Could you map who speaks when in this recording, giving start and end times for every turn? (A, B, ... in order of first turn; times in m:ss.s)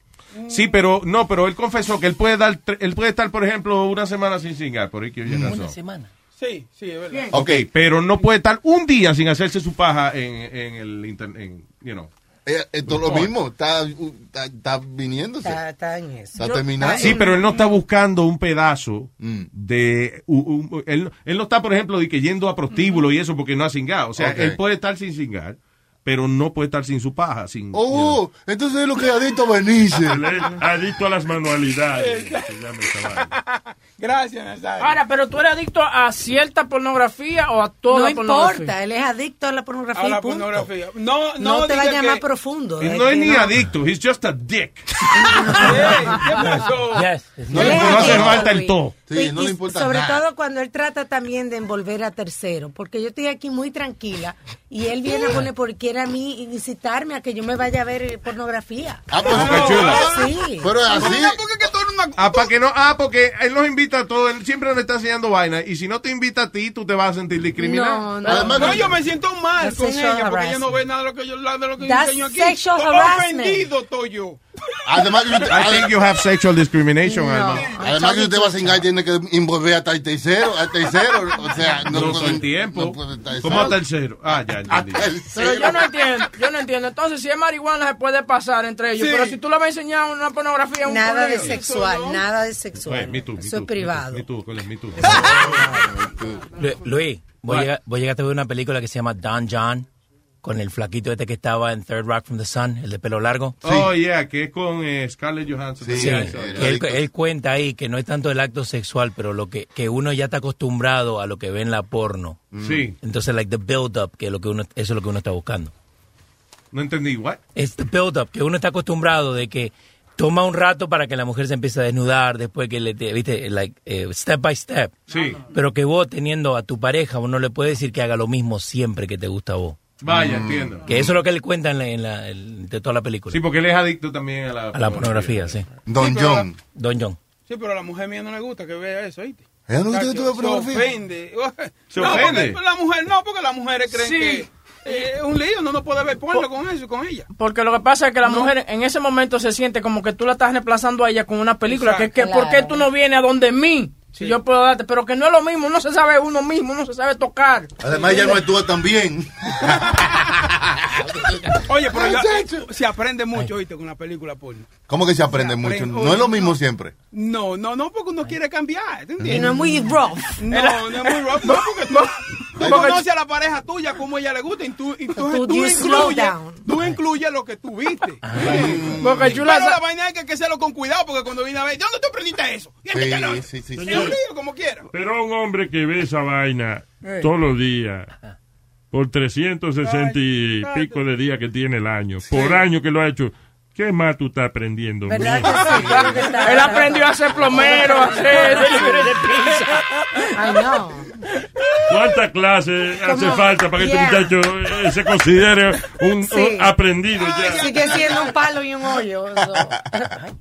0:00.3-0:00.7 A
0:00.5-0:05.8 B
0:05.3-0:05.5 C
0:05.3-0:06.1 D
0:06.4-0:07.3 A
0:07.3-0:07.6 C
0:07.3-0:12.1 B
0:12.4-0:15.6 C
0:12.9-0:13.3 B
0:15.4-0:17.4 E
0:16.4-0:17.2 C
0:17.0-0:28.2 B
0:19.2-0:19.5 C
0:24.2-0:24.6 C
0:27.7-0:30.2 C
0:30.0-0:33.3 F
0:32.0-0:32.5 A
0:33.2-0:35.0 A
0:34.8-0:38.7 G
0:37.9-0:40.7 E
0:39.9-0:42.2 A
0:41.4-0:43.5 E
0:42.8-0:45.6 B
0:45.2-0:46.0 E
0:45.6-0:47.1 A
0:46.4-0:48.2 D
0:47.5-0:48.5 C
0:47.5-1:00.8 E
0:47.5-0:49.0 B
0:49.1-0:50.2 C
0:59.1-1:01.4 C
0:59.3-1:00.0 B
0:59.3-1:00.3 A
1:00.8-1:02.5 A
1:02.2-1:08.4 B
1:07.6-1:08.9 E
1:08.2-1:09.0 C
1:08.5-1:14.4 A
1:09.6-1:10.7 E
1:11.8-1:13.7 E
1:14.8-1:15.9 C
1:15.5-1:17.7 B
1:17.0-1:18.1 E
1:17.7-1:23.8 C
1:21.9-1:25.1 B
1:24.3-1:25.8 C
1:25.3-1:31.6 G
1:29.0-1:29.4 A
1:30.8-1:34.3 E
1:31.4-1:32.2 A
1:32.8-1:35.2 B
1:35.0-1:36.4 C
1:35.1-1:35.7 E
1:36.6-1:39.9 D
1:40.4-1:43.6 D
1:43.6-1:43.9 C
1:43.6-1:46.9 B
1:45.8-1:47.0 C
1:45.9-1:52.4 D
1:52.5-1:52.9 C
1:52.6-1:52.9 B
1:53.0-1:55.7 D
1:56.7-1:57.4 B
1:57.5-2:09.8 D
2:05.1-2:05.4 B
2:10.0-2:10.9 B
2:10.0-2:11.1 C
2:10.9-2:13.4 D
2:13.3-2:15.6 B
2:14.7-2:15.7 D
2:15.8-2:16.6 C
2:16.0-2:16.5 A
2:16.7-2:17.2 D
2:17.5-2:27.3 A
2:19.7-2:20.9 C
2:21.9-2:22.6 B
2:23.9-2:25.1 G
2:27.3-2:38.1 G
2:28.2-2:28.5 A
2:31.7-2:32.0 A
2:32.1-2:32.8 E
2:37.8-2:40.6 C
2:41.7-2:44.7 A
2:41.8-2:42.6 C
2:44.9-2:46.9 C
2:45.3-2:46.6 A
2:47.1-2:49.5 A
2:49.2-2:50.4 E
2:49.3-2:49.9 D
2:50.4-3:04.8 A
2:50.5-2:52.1 G
2:52.6-2:52.9 C
2:52.6-2:53.0 G
2:55.2-2:56.6 E
2:58.2-2:58.9 D
2:58.4-2:59.4 C
2:59.0-2:59.8 G
3:02.9-3:04.1 C
3:03.8-3:04.1 F
3:04.9-3:08.1 F
3:08.9-3:15.7 F
3:09.8-3:11.0 A
3:12.2-3:12.6 C
3:15.1-3:19.1 E
3:15.6-3:16.0 C
3:15.9-3:19.8 G
3:20.3-3:21.1 E
3:21.9-3:27.7 F
3:23.0-3:24.3 E
3:26.2-3:26.7 E
3:27.1-3:28.4 A
3:27.5-3:30.2 E